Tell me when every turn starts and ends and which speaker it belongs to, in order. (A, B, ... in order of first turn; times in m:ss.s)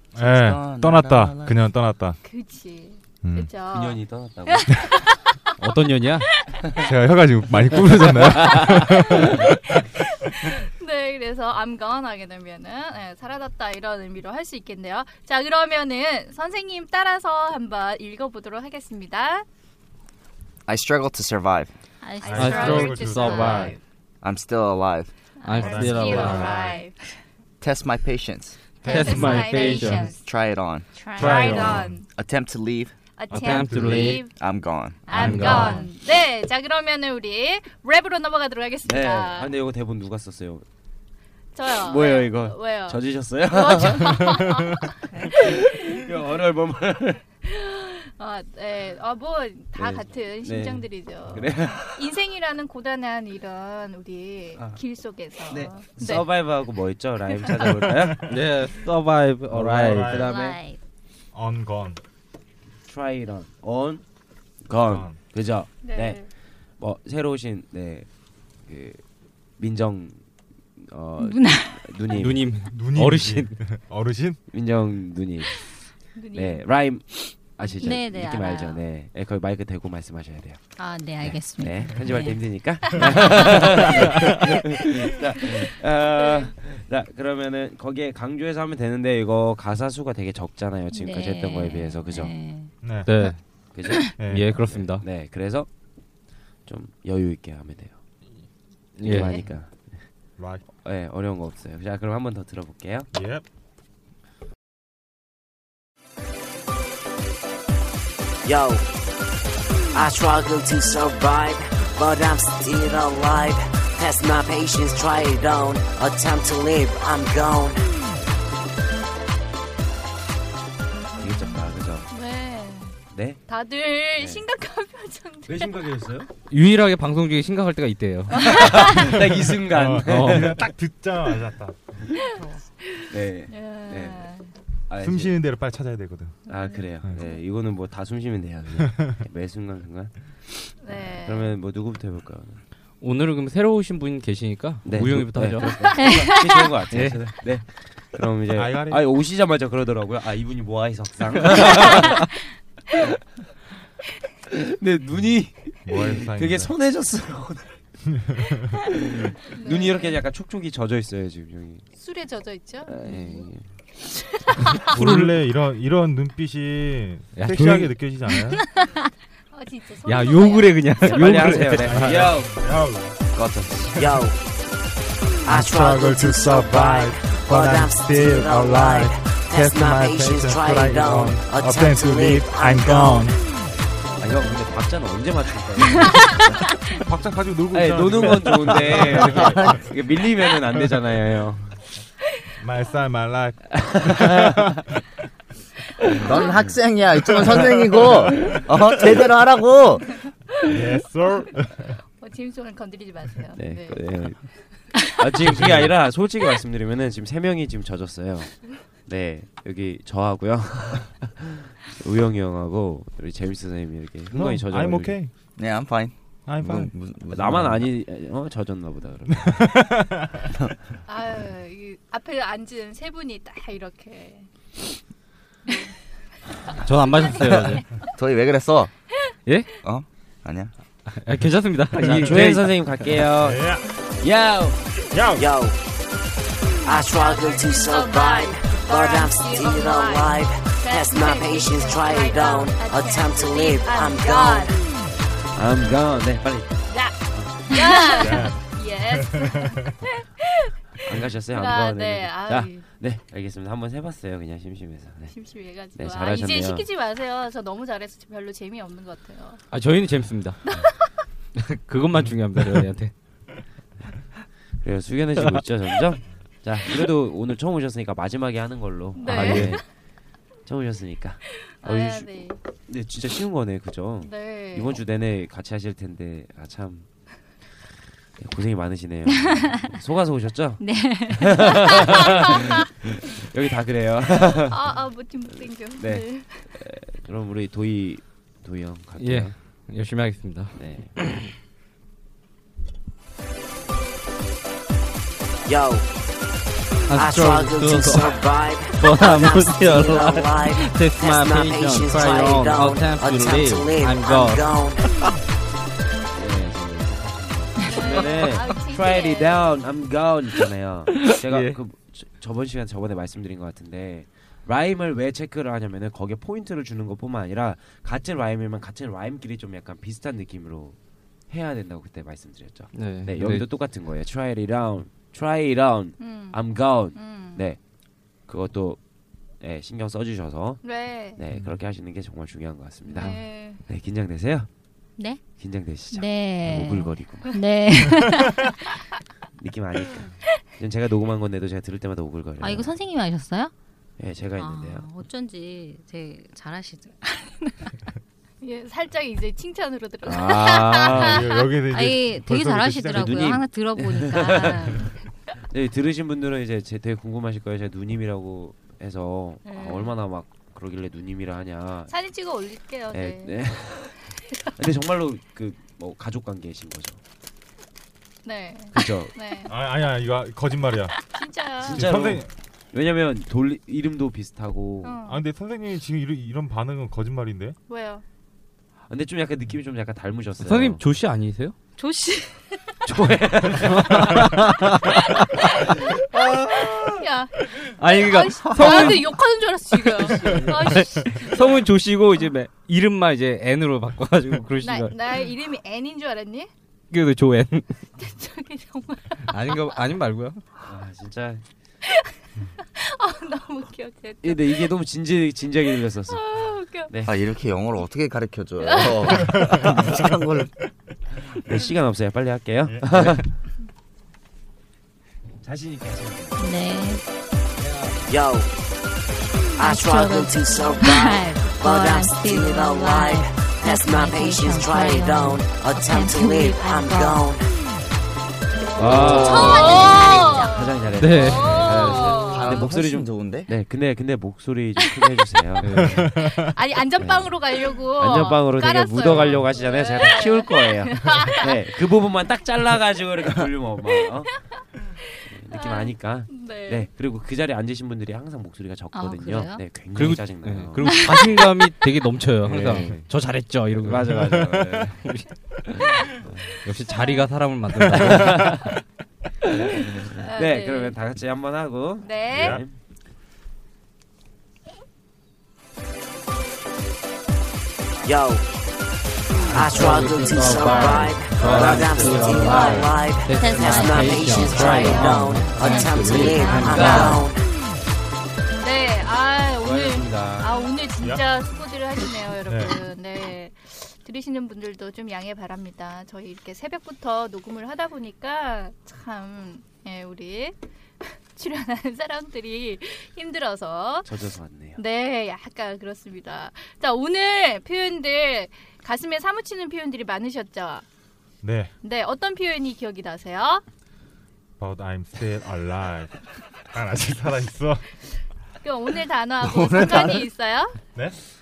0:00.2-0:01.6 A
0:00.2-0:02.2 B
0:02.2-0:05.4 C
0:03.2-0:03.5 B
0:03.7-0:04.9 D
0:05.6-0:06.4 E
0:06.5-0:06.8 C
0:06.7-0:09.4 B
0:08.0-0:08.8 D
0:08.5-0:19.4 C
0:20.7-0:21.7 A
0:22.0-0:23.6 F
0:22.2-0:23.8 C
0:22.2-0:23.6 B
0:22.3-0:23.8 E
0:24.2-0:25.1 A
0:25.4-0:26.6 F
0:25.4-0:26.8 E
0:25.5-0:26.0 B
0:25.5-0:27.0 C
0:27.6-0:28.6 A
0:28.8-0:30.1 E
0:28.8-0:30.2 C
0:29.1-0:29.5 B
0:30.2-0:30.9 A
0:31.0-0:31.4 F
0:31.1-0:32.1 C
0:31.2-0:32.0 B
0:31.4-0:31.8 E
0:31.5-0:32.9 A
0:33.2-0:34.3 C
0:33.3-0:34.0 B
0:33.4-0:34.3 E
0:34.3-0:35.7 A
0:35.1-0:39.5 C
0:35.1-0:35.8 B
0:35.1-0:35.8 E
0:38.8-0:40.7 D
0:41.6-0:45.6 C
0:41.7-0:44.4 D
0:45.3-0:47.2 D
0:47.4-0:56.3 C
0:49.8-0:52.0 D
0:55.5-0:58.2 D
0:58.0-0:58.4 B
0:58.3-1:00.1 E
0:59.5-1:00.6 D
0:59.6-1:00.3 B
1:00.1-1:00.8 F
1:01.3-1:02.0 B
1:02.8-1:04.0 D
1:04.6-1:06.3 D
1:04.8-1:05.2 B
1:05.8-1:06.3 C
1:06.8-1:08.1 D
1:08.7-1:09.0 D
1:09.6-1:10.2 D
1:10.8-1:12.5 D
1:11.2-1:12.2 F
1:12.2-1:13.6 E
1:12.7-1:14.4 B
1:14.5-1:20.6 D
1:16.2-1:16.6 C
1:17.8-1:18.8 F
1:20.8-1:22.4 F
1:21.2-1:32.4 D
1:26.2-1:26.5 C
1:30.9-1:34.2 F
1:32.8-1:33.1 B
1:33.1-1:33.4 E
1:33.7-1:35.7 D
1:34.2-1:34.5 B
1:34.2-1:35.1 E
1:36.6-1:38.0 D
1:39.0-1:39.4 E
1:39.0-1:40.1 D
1:40.4-1:40.6 B
1:40.8-1:43.1 D
1:43.1-1:43.4 B
1:48.4-1:48.9 G
1:49.9-1:57.8 G
2:01.2-2:02.1 D
2:02.1-2:03.0 C
2:03.1-2:03.4 D
2:03.5-2:05.7 C
2:04.2-2:04.4 D
2:05.5-2:06.3 D
2:06.5-2:08.9 E
2:08.5-2:10.6 D
2:08.5-2:09.0 C
2:08.9-2:11.8 B
2:10.2-2:10.6 E
2:13.1-2:14.3 D
2:13.5-2:14.5 C
2:14.9-2:15.4 D
2:15.0-2:16.4 B
2:16.5-2:22.6 D
2:20.8-2:21.6 C
2:23.0-2:26.1 E
2:24.8-2:32.3 D
2:26.0-2:26.7 F
2:26.8-2:27.2 E
2:28.5-2:29.0 B
2:34.5-2:37.8 D
2:35.9-2:36.7 B
2:38.9-2:41.9 D
2:39.5-2:40.2 C
2:42.0-2:43.0 C
2:42.9-2:43.7 D
2:44.9-2:48.6 B
2:44.9-2:45.4 E
2:47.4-2:48.0 E
2:49.5-2:51.9 C
2:50.1-2:52.0 E
2:51.0-2:52.5 D
2:51.8-2:53.2 B
2:53.4-2:53.9 D
2:53.9-2:54.2 B
2:53.9-2:54.4 G
2:55.4-3:03.3 G
2:55.5-3:03.4 B
3:04.1-3:04.4 C
3:04.2-3:06.8 D
3:06.9-3:09.7 B
3:07.7-3:11.7 D
3:09.2-3:09.9 A
3:12.6-3:14.8 B
3:13.8-3:14.6 D
3:16.1-3:16.6 D
3:16.2-3:20.2 A
3:16.2-3:16.5 C
3:20.6-3:22.0 B
3:22.2-3:25.0 C
3:23.6-3:35.2 D
3:25.5-3:25.9 B
3:34.3-3:35.3 B
3:35.6-3:37.9 A
3:36.5-3:36.9 B
3:37.3-3:39.6 D
3:39.4-3:40.4 B
3:41.1-3:44.5 C
3:45.7-3:46.0 C
3:46.8-3:47.8 E
3:47.4-3:48.9 A
3:49.5-3:49.7 E
3:49.8-3:50.7 A
3:51.1-3:53.3 E
3:52.0-3:55.0 D
3:52.0-3:52.3 B
3:53.4-3:53.8 B
3:55.1-3:55.5 B
3:55.4-3:55.8 G
3:56.8-4:04.8 G
3:56.9-4:04.8 C
4:05.5-4:06.7 D
4:06.9-4:07.2 C
4:07.3-4:08.2 D
4:07.7-4:11.0 C
4:08.2-4:10.0 B
4:11.0-4:16.9 D
4:11.5-4:12.8 C
4:15.3-4:19.6 C
4:19.7-4:20.6 E
4:20.7-4:21.1 C
4:21.6-4:23.1 E
4:24.8-4:29.8 D
4:25.4-4:25.6 E
4:29.2-4:29.8 C
4:29.3-4:29.8 E
4:30.7-4:32.3 D
4:31.6-4:32.6 C
4:32.9-4:37.1 D
4:34.2-4:35.0 C
4:38.4-4:45.0 D
4:39.5-4:39.8 F
4:40.8-4:42.2 F
4:44.7-4:46.8 C
4:45.6-4:49.6 D
4:49.2-4:51.5 E
4:50.8-4:51.1 D
4:55.7-4:56.1 G
4:57.1-5:05.3 E
4:57.1-5:05.0 G
5:06.3-5:21.0 D
5:07.8-5:09.8 C
5:08.2-5:08.8 E
5:11.1-5:11.8 E
5:21.5-5:27.8 D
5:22.9-5:23.7 E
5:26.2-5:26.6 C
5:27.1-5:27.6 C
5:28.5-5:29.0 D
5:29.6-5:34.7 D
5:30.8-5:31.4 C
5:33.1-5:33.8 C
5:35.6-5:37.6 D
5:36.1-5:39.0 F
5:39.6-5:42.9 D
5:42.6-5:43.7 F
5:44.2-5:45.1 D
5:44.6-5:47.9 F
5:48.6-5:51.4 C
5:50.2-5:51.5 D
5:51.1-5:53.7 B
5:51.8-5:55.1 F
5:53.1-5:55.0 D
5:55.5-6:02.1 D
5:59.7-6:00.1 C
6:02.1-6:03.6 C
6:03.1-6:07.2 D
6:04.3-6:04.7 C
6:08.4-6:09.8 C
6:08.9-6:09.3 D
6:09.7-6:11.2 B
6:11.3-6:12.1 C
6:11.8-6:15.2 D
6:11.8-6:12.5 B
6:15.0-6:15.4 C
6:15.2-6:17.8 B
6:17.9-6:18.2 C
6:19.1-6:21.0 D
6:20.6-6:21.8 E
6:22.0-6:23.0 C
6:23.0-6:24.5 D
6:23.9-6:25.5 E
6:25.6-6:31.9 C
6:26.3-6:27.0 E
6:27.8-6:29.4 E
6:30.0-6:35.4 E
6:34.8-6:36.7 C
6:37.1-6:37.9 E
6:38.2-6:40.0 C
6:39.5-6:40.6 E
6:40.8-6:41.6 D
6:42.1-6:44.9 C
6:44.4-6:46.4 D
6:46.3-6:47.1 C
6:47.0-6:47.3 D
6:47.2-6:50.7 A
6:48.8-6:49.8 C
6:49.4-6:49.7 B
6:51.4-6:53.5 D
6:52.9-6:53.3 B
6:55.6-6:56.6 D
6:56.6-6:57.2 F
6:57.8-6:58.4 D
6:58.3-6:58.7 G
6:59.8-7:07.4 F
6:59.8-7:07.6 G
7:08.8-7:10.9 F
7:08.8-7:12.8 C
7:09.0-7:16.3 D
7:09.0-7:09.6 E
7:11.1-7:12.1 E
7:12.4-7:13.7 A
7:15.8-7:16.2 E
7:16.0-7:16.7 B
7:16.3-7:21.8 C
7:17.2-7:24.6 D
7:25.5-7:31.6 D
7:25.7-7:27.1 C
7:29.1-7:30.0 F
7:30.0-7:35.5 E
7:31.1-7:31.4 F
7:32.6-7:33.3 D
7:34.0-7:35.2 D
7:35.9-7:36.7 D
7:36.8-7:38.7 E
7:37.1-7:37.5 C
7:38.2-7:39.0 D
7:39.6-7:43.0 D
7:40.4-7:41.2 C
7:42.2-7:42.8 C
7:42.5-7:42.8 B
7:48.2-7:48.7 G
7:49.7-7:57.5 E
7:49.7-7:57.6 G
7:51.7-7:52.2 D
7:53.5-7:54.7 F
7:54.7-7:56.3 C
7:55.5-7:56.0 F
7:56.6-7:57.3 F
7:58.8-8:14.3 C
7:59.8-8:00.8 E
8:14.2-8:15.0 D
8:15.0-8:21.1 C
8:21.6-8:21.9 B
8:22.0-8:23.8 C
8:24.8-8:26.4 B
8:26.9-8:28.1 B
8:28.8-8:31.0 C
8:29.9-8:30.4 B